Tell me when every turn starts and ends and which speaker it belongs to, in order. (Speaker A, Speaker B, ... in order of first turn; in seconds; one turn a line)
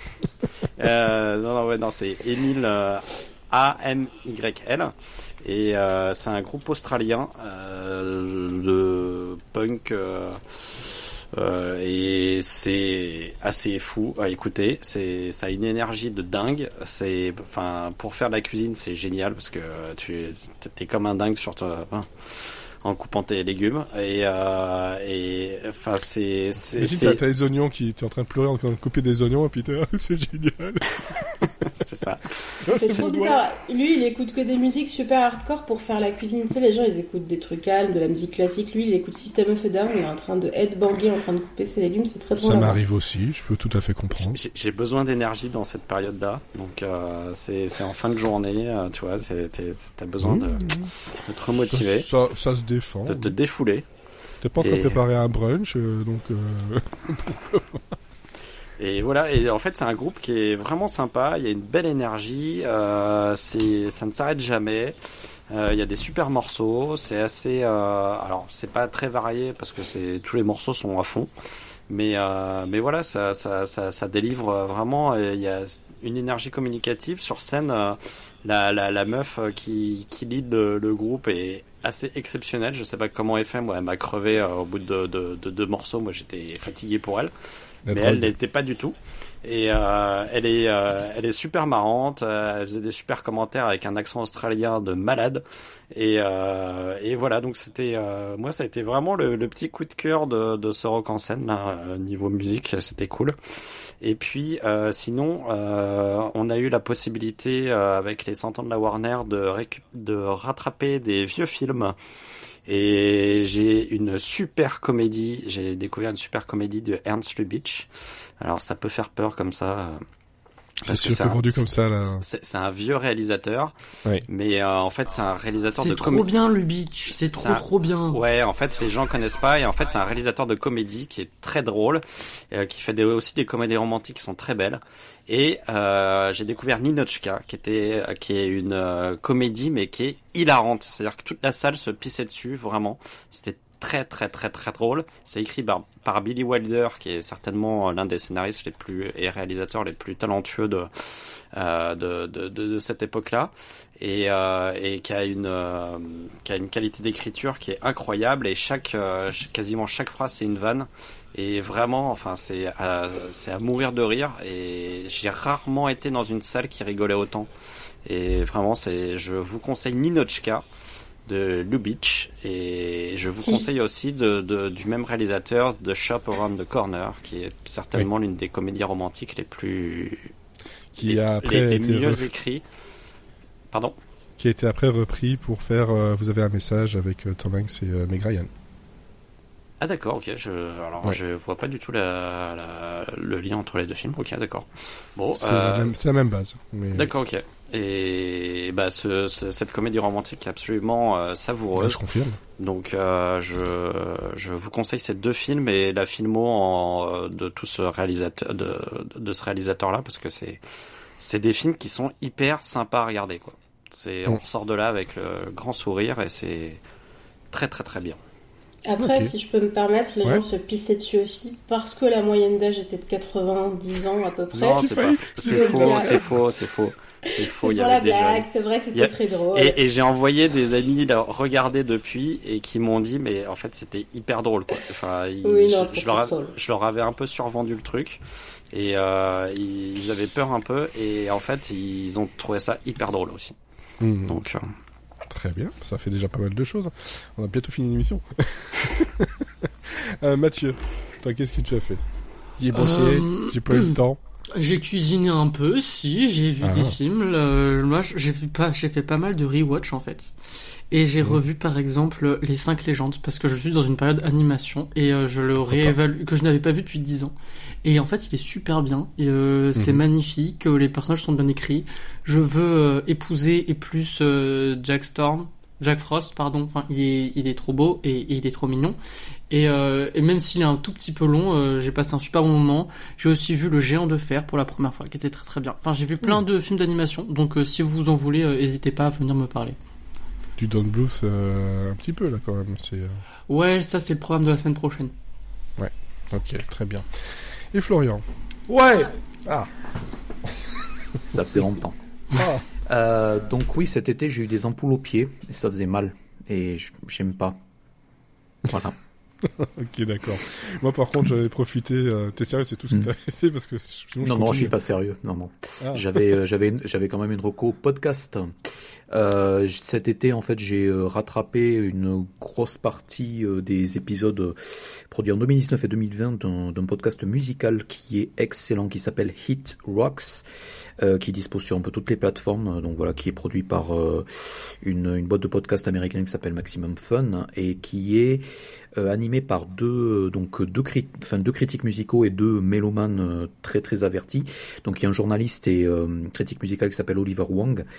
Speaker A: 0.8-27.2
Speaker B: 26.7-31.5
Speaker A: 31.7-33.1
Speaker B: 32.6-33.4
Speaker C: 32.7-42.8
Speaker B: 42.4-44.4
Speaker A: 44.2-52.1
Speaker B: 50.2-50.9
Speaker B: 51.6-53.3
Speaker A: 53.0-53.9
Speaker B: 54.4-57.8
Speaker A: 54.6-55.0
Speaker A: 58.8-65.0
Speaker A: 65.5-71.3
Speaker A: 71.9-87.3
Speaker B: 87.9-88.3
Speaker A: 87.9-112.0
Speaker A: 112.7-117.9
Speaker A: 118.4-120.0
Speaker A: 120.8-123.7
Speaker B: 120.8-122.2
Speaker A: 124.3-126.3
Speaker D: 125.8-128.2
Speaker A: 127.1-167.5
Speaker A: 168.0-170.6
Speaker A: 171.3-180.3
Speaker B: 180.9-182.3
Speaker A: 181.0-182.6
Speaker B: 184.4-188.5
Speaker A: 189.8-195.9
Speaker B: 195.4-197.1
Speaker A: 196.9-202.0
Speaker B: 201.8-202.4
Speaker A: 202.6-210.6
Speaker A: 211.2-216.8
Speaker A: 217.5-218.2
Speaker C: 218.8-226.2
Speaker B: 219.0-219.3
Speaker A: 224.5-238.2
Speaker B: 224.8-226.3
Speaker C: 227.2-229.8
Speaker C: 235.4-236.5
Speaker A: 238.7-243.5
Speaker B: 244.0-244.4
Speaker A: 244.3-244.7
Speaker B: 245.3-252.0
Speaker B: 252.6-254.2
Speaker D: 252.7-253.9
Speaker D: 254.5-260.3
Speaker B: 256.6-256.9
Speaker D: 260.9-279.0
Speaker B: 265.6-265.9
Speaker B: 269.8-270.0
Speaker D: 279.5-289.8
Speaker B: 290.6-293.2
Speaker D: 293.5-295.1
Speaker B: 295.8-298.2
Speaker E: 298.7-299.1
Speaker E: 301.3-302.0
Speaker B: 302.3-302.6
Speaker E: 302.9-307.6
Speaker E: 308.6-308.9
Speaker B: 309.4-314.8
Speaker E: 314.2-318.5
Speaker B: 315.8-316.2
Speaker E: 319.1-324.6
Speaker E: 325.1-330.4
Speaker E: 331.0-334.2
Speaker E: 334.8-347.9